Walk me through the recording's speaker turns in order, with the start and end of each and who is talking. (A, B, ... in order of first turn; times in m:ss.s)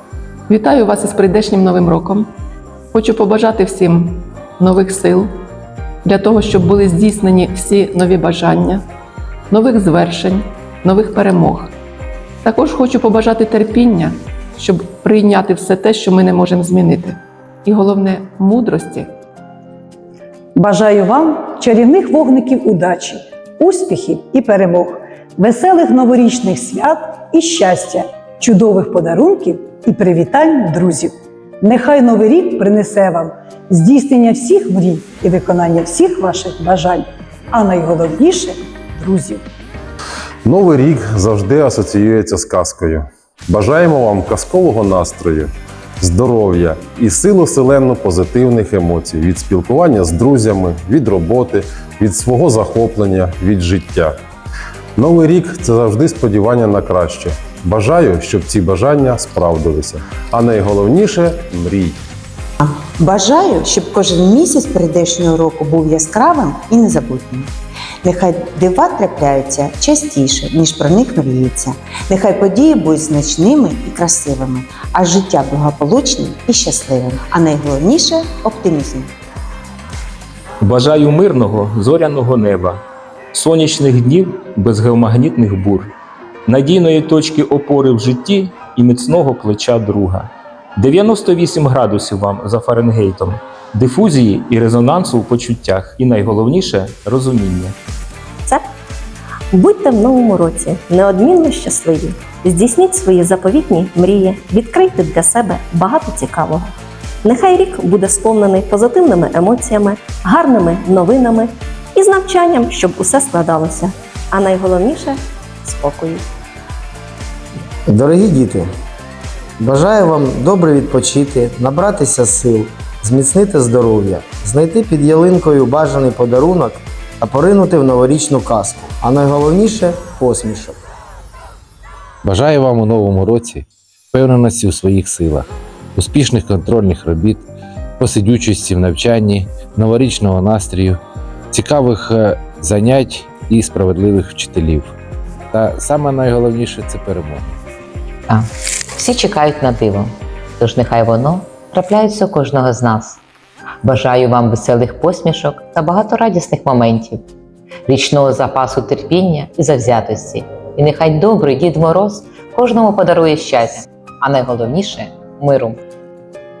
0:00.5-0:02.3 A
0:02.9-0:05.4 A
0:06.0-0:08.8 A
0:09.5-0:11.7 A
0:12.4-0:19.1 A
0:20.6-0:31.1 B
0:31.6-0:39.4 B
0:40.4-0:54.1 C
0:55.0-1:02.0 C
1:02.6-1:07.5 D
1:08.0-1:19.1 D
1:20.6-1:22.8 E
1:23.3-1:25.9 E
1:26.5-1:37.8 E
1:39.5-1:46.7 F
1:47.2-1:56.2 F
1:57.9-1:58.7 G
1:59.6-2:10.8 G
2:12.2-2:17.4 H
2:18.0-2:21.0 H
2:21.5-2:24.9 H
2:25.5-2:27.6 H
2:28.3-2:33.2 I
2:33.8-2:37.2 I
2:37.9-2:45.8 I